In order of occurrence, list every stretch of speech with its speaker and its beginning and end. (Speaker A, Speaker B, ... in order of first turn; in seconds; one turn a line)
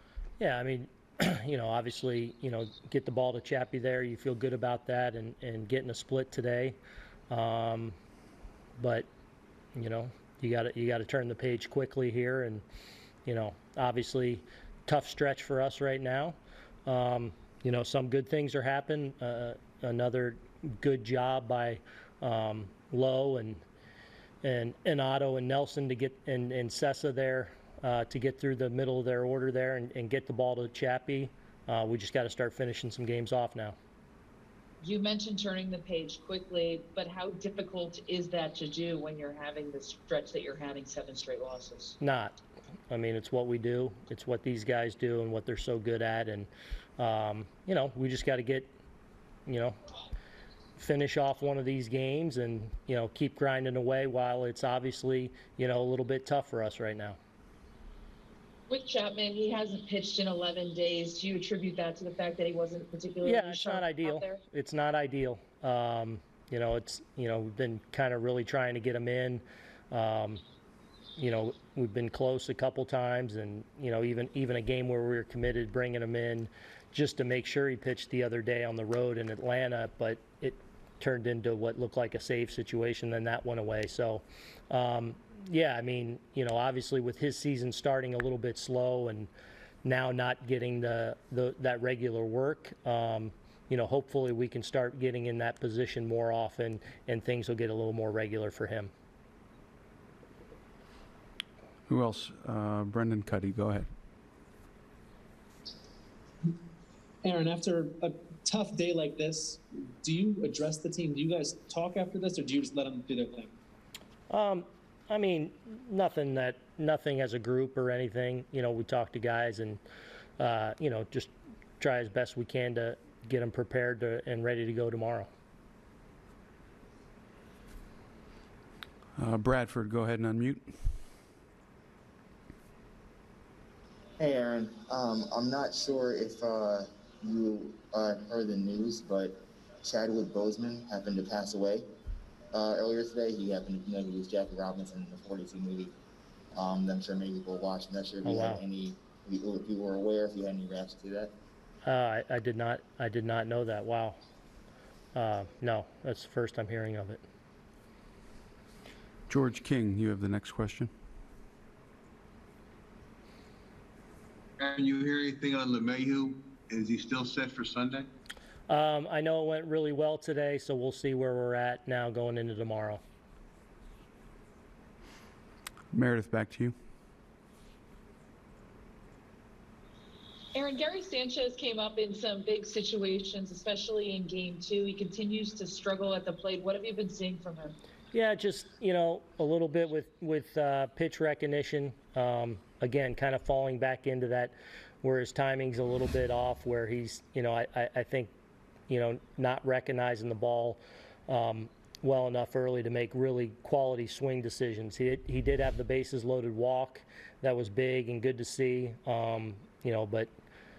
Speaker A: 0.4-6.8
Speaker A: 7.3-7.9
Speaker A: 8.8-9.1
Speaker A: 9.8-12.6
Speaker A: 13.3-23.6
Speaker A: 24.4-33.8
Speaker B: 34.8-42.0
Speaker A: 42.0-42.4
Speaker A: 42.9-48.7
Speaker A: 49.5-49.8
Speaker A: 50.8-57.2
Speaker B: 58.7-64.4
Speaker A: 63.2-70.4
Speaker A: 71.2-89.3
Speaker A: 89.8-98.9
Speaker C: 101.9-103.9
Speaker D: 107.2-113.5
Speaker A: 114.3-119.8
Speaker A: 120.4-125.3
Speaker C: 129.2-130.8
Speaker E: 134.2-141.8
Speaker E: 142.5-145.9
Speaker E: 146.5-151.3
Speaker A: 148.2-148.6
Speaker A: 151.8-154.2
Speaker A: 155.2-157.2
Speaker C: 159.3-160.9
Speaker F: 164.6-168.1
Speaker A: 168.7-173.0
Speaker C: 175.9-176.8
Speaker B: 180.6-187.8
Speaker A: 188.1-198.3
Speaker A: 198.9-210.3